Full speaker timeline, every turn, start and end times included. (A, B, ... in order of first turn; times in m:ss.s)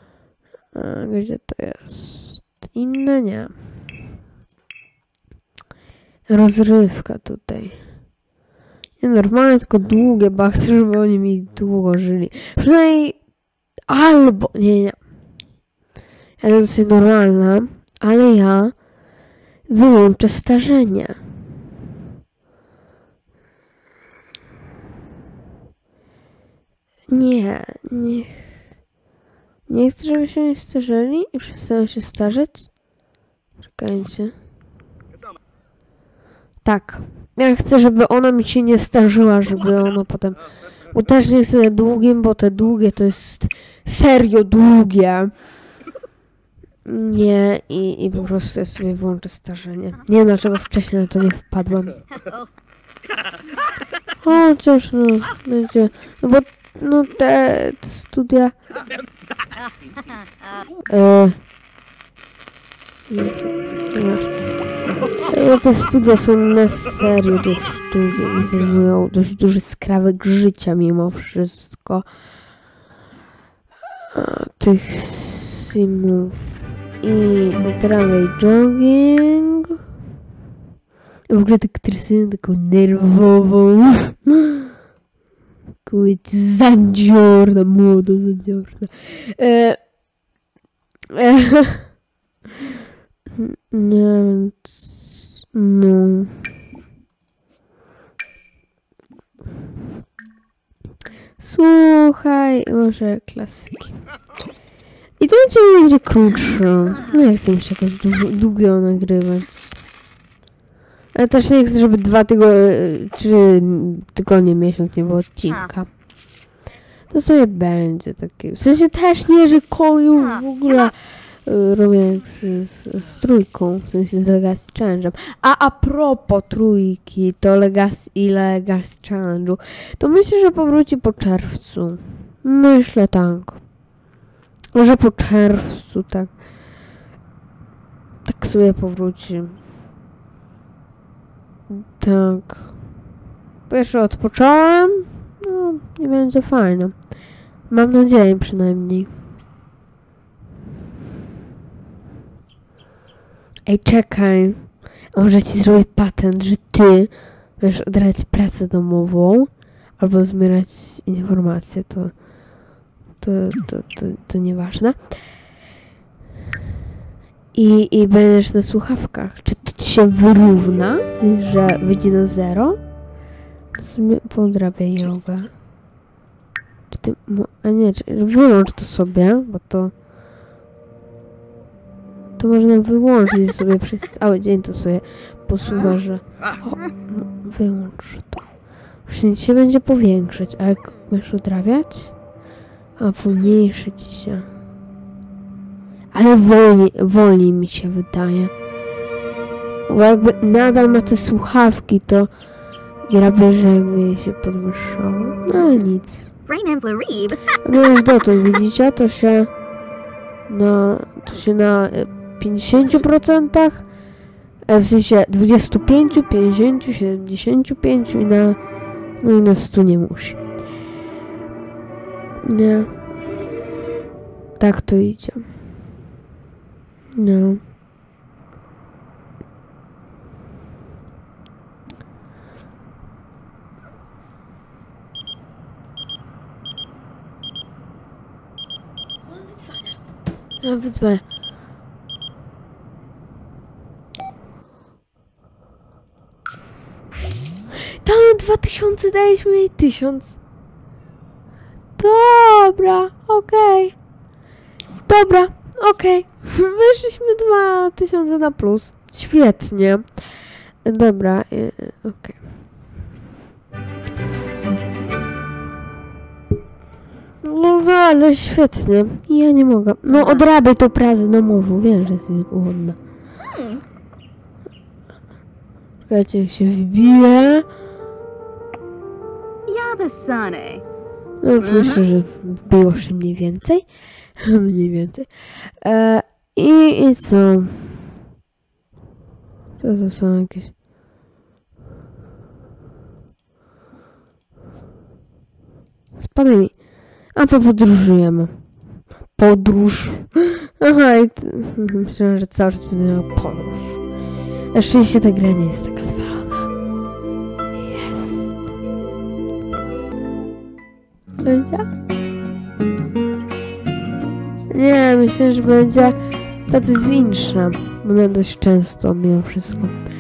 0:00.7-0:03.6 A
0:06.3-0:07.8 A
0:09.0-0:13.2 A
0:13.9-0:15.0 A
0:16.4-0:18.8 A
0:19.7-0:21.2 A
0:27.1-0:28.5 A
0:29.7-0:32.7 A
0:33.7-0:34.4 A
0:36.6-0:45.6 A
0:46.9-0:52.0 A
0:52.1-0:52.5 B
0:54.2-0:58.6 A
0:59.6-1:00.6 B
1:00.9-1:01.4 A
1:03.1-1:04.4 A
1:05.2-1:12.1 A
1:14.1-1:19.8 A
1:21.3-1:24.5 A
1:25.8-1:29.8 A
1:31.1-1:31.9 A
1:33.3-1:36.5 A
1:41.4-1:44.0 A
1:45.2-1:49.8 A
1:51.1-1:55.9 A
1:55.4-1:55.7 B
1:57.1-2:13.6 A
2:00.1-2:00.9 B
2:14.7-2:16.4 A
2:18.2-2:19.6 A
2:21.7-2:22.8 A
2:23.7-2:27.1 A
2:27.7-2:29.2 A
2:33.7-2:42.2 A
2:43.2-2:45.2 A
2:47.5-2:52.8 A
2:53.8-2:55.5 A
2:56.9-2:59.9 A
3:02.4-3:08.4 A
3:09.1-3:12.2 A
3:13.0-3:14.5 A
3:16.1-3:18.5 A
3:19.9-3:22.3 A
3:23.1-3:26.3 A
3:25.5-3:25.8 B
3:26.5-3:27.5 B
3:27.6-3:29.5 A
3:30.5-3:33.8 A
3:34.7-3:38.6 A
3:39.2-3:40.4 A
3:42.4-3:42.9 A
3:44.6-3:45.6 A
3:47.2-3:47.6 A
4:00.6-4:01.2 A
4:08.0-4:10.4 A
4:12.0-4:14.0 A
4:15.1-4:20.3 A
4:20.8-4:22.4 A
4:27.4-4:33.0 A
4:30.1-4:30.5 B
4:33.4-4:33.8 B
4:36.1-4:37.7 A
4:39.7-4:40.8 B
4:41.4-4:43.8 A
4:41.6-4:42.0 B
4:44.4-4:48.0 A
4:49.8-4:50.7 A
4:56.2-4:58.6 A
4:59.2-5:04.0 A
5:04.7-5:06.7 A
5:07.8-5:08.5 A
5:11.4-5:11.9 A
5:14.7-5:16.2 A
5:16.7-5:20.0 A